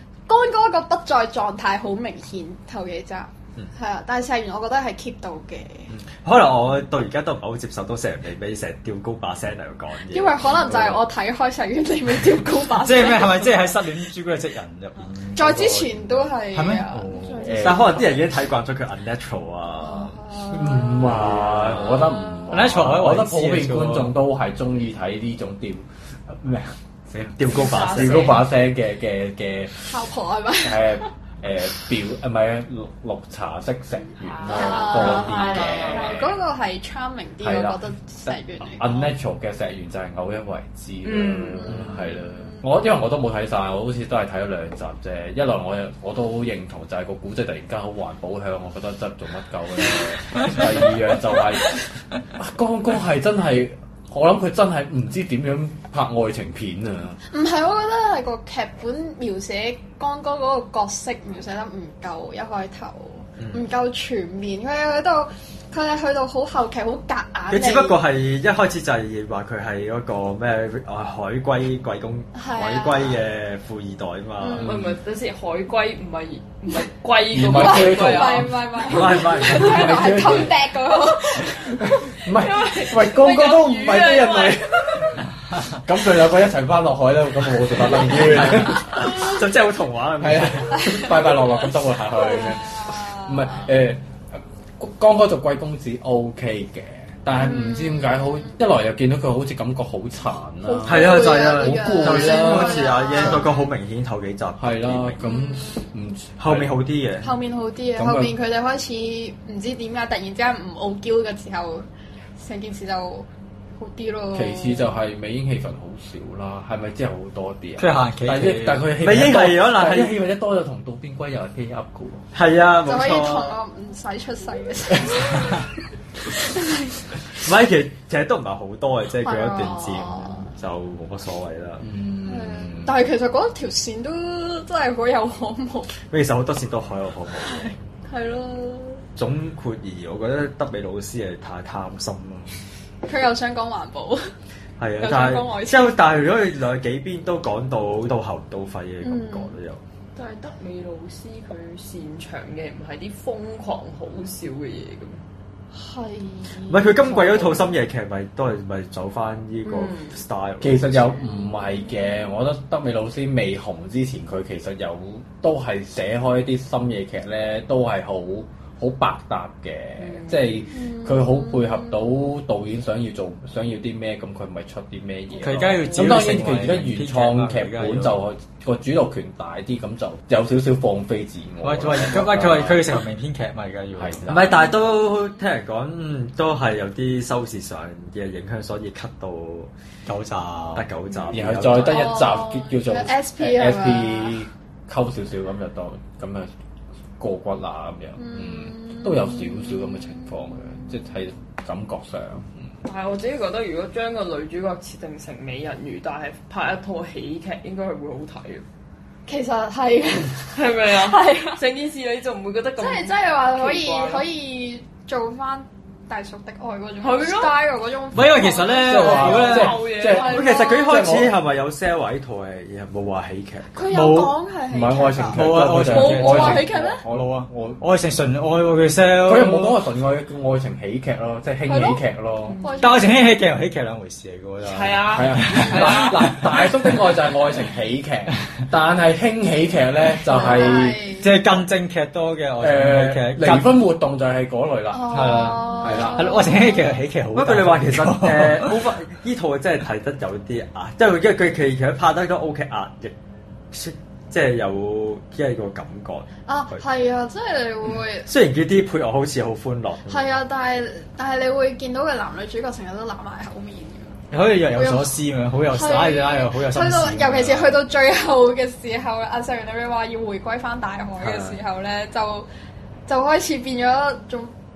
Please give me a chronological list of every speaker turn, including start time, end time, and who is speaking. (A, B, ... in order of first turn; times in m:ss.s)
0:00.3-0:05.9 A
0:05.9-0:11.0 B
0:10.1-0:13.8 A
0:12.8-0:17.5 C
0:15.3-0:17.1 A
0:17.2-0:17.8 D
0:17.4-0:18.2 E
0:17.4-0:22.0 B
0:19.8-0:22.6 A
0:20.5-0:26.8 E
0:22.5-0:24.1 C
0:27.4-0:28.4 B
0:27.4-0:30.0 E
0:27.5-0:28.4 D
0:29.9-0:31.1 A
0:30.6-0:36.4 E
0:34.3-0:36.1 D
0:34.5-0:39.1 A
0:37.4-0:51.8 E
0:41.0-0:41.7 D
0:41.8-0:42.6 A
0:52.4-0:57.2 E
0:57.3-1:08.0 A
1:03.4-1:03.6 B
1:07.5-1:14.7 B
1:12.3-1:13.2 A
1:14.4-1:14.7 A
1:14.5-1:18.5 D
1:14.6-1:15.0 E
1:17.3-1:20.5 E
1:17.5-1:22.1 A
1:18.8-1:20.2 B
1:21.4-1:25.2 E
1:22.2-1:25.0 D
1:25.7-1:29.1 E
1:28.4-1:31.1 B
1:30.2-1:43.4 E
1:32.1-1:33.7 A
1:37.4-1:38.6 A
1:40.6-1:43.7 A
1:40.9-1:45.3 B
1:44.6-1:46.8 E
1:45.2-1:45.9 A
1:46.4-1:47.3 B
1:47.2-1:51.8 A
1:48.0-1:48.3 E
1:52.4-1:53.3 A
1:53.8-1:55.0 A
1:54.3-2:02.3 E
1:57.8-1:58.9 C
1:59.0-2:00.2 B
2:02.3-2:03.6 B
2:02.8-2:05.6 A
2:06.3-2:07.0 A
2:07.4-2:11.8 B
2:09.2-2:10.5 A
2:11.8-2:13.0 E
2:12.2-2:15.9 A
2:16.1-2:17.7 B
2:17.4-2:19.0 A
2:19.2-2:22.5 B
2:23.0-2:24.3 A
2:24.8-2:29.8 B
2:25.0-2:26.0 A
2:29.0-2:29.5 A
2:30.2-2:35.2 D
2:35.7-2:37.7 A
2:36.7-2:41.2 B
2:39.6-2:40.2 D
2:40.6-3:03.0 E
2:41.5-2:42.0 A
2:50.0-2:50.5 D
2:50.7-2:52.0 A
2:55.4-2:58.2 C
3:01.6-3:04.4 C
3:04.0-3:04.3 E
3:04.3-3:09.7 B
3:04.5-3:05.2 A
3:10.0-3:10.8 C
3:10.7-3:12.1 B
3:11.3-3:16.5 E
3:11.8-3:14.4 A
3:17.2-3:22.5 E
3:18.2-3:20.9 A
3:22.8-3:28.6 D
3:29.3-3:31.6 A
3:30.5-3:34.2 D
3:32.8-3:41.2 A
3:37.0-3:37.6 D
3:38.1-3:39.8 C
3:38.9-3:41.3 E
3:39.2-3:40.6 D
3:40.1-3:43.9 B
3:43.7-3:47.0 A
3:43.9-3:44.3 C
3:44.7-3:47.8 E
3:45.3-3:49.8 C
3:49.2-3:52.6 E
3:51.6-3:52.0 A
3:52.5-3:52.8 D
3:52.6-3:53.1 A
3:52.8-3:56.9 C
3:54.6-3:56.4 D
3:55.1-4:01.0 E
4:00.3-4:01.4 A
4:01.1-4:03.7 C
4:02.6-4:06.4 E
4:04.9-4:07.0 A
4:05.1-4:08.7 C
4:07.3-4:13.1 B
4:13.7-4:16.8 B
4:16.4-4:18.3 A
4:18.3-4:20.3 B
4:20.1-4:24.2 A
4:24.3-4:27.8 C
4:24.7-4:32.5 A
4:31.2-4:31.5 E
4:33.1-4:34.5 A